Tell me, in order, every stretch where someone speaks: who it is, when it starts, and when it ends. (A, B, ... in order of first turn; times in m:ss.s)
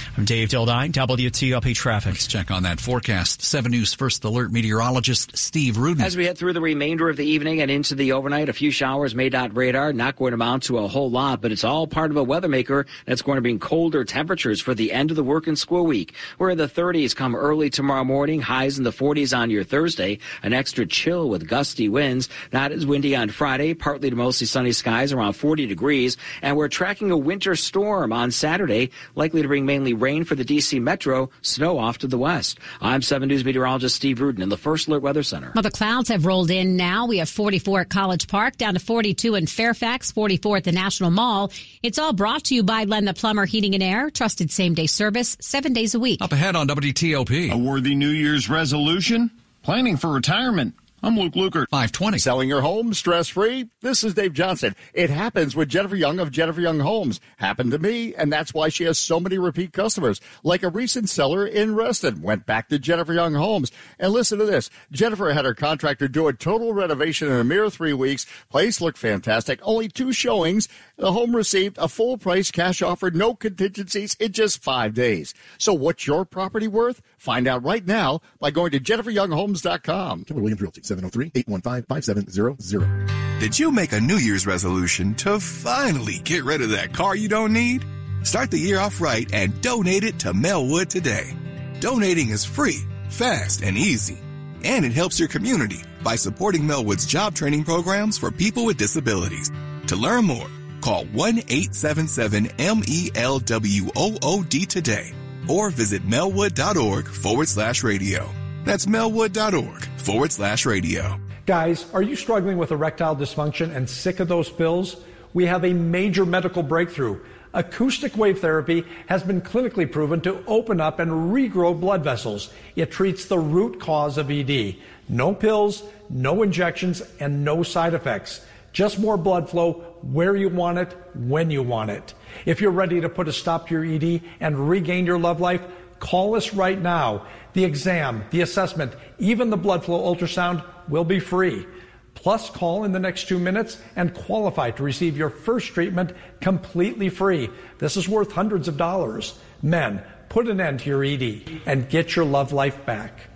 0:00.2-0:02.2 A
0:02.1-0:06.1 B
0:06.0-0:35.5 C
0:35.5-0:46.2 D
0:46.2-0:47.6 B
0:47.5-0:51.6 E
0:51.7-0:52.2 B
0:52.2-1:20.2 F
1:20.3-1:22.9 G
1:23.4-1:51.2 H
1:51.5-2:33.3 I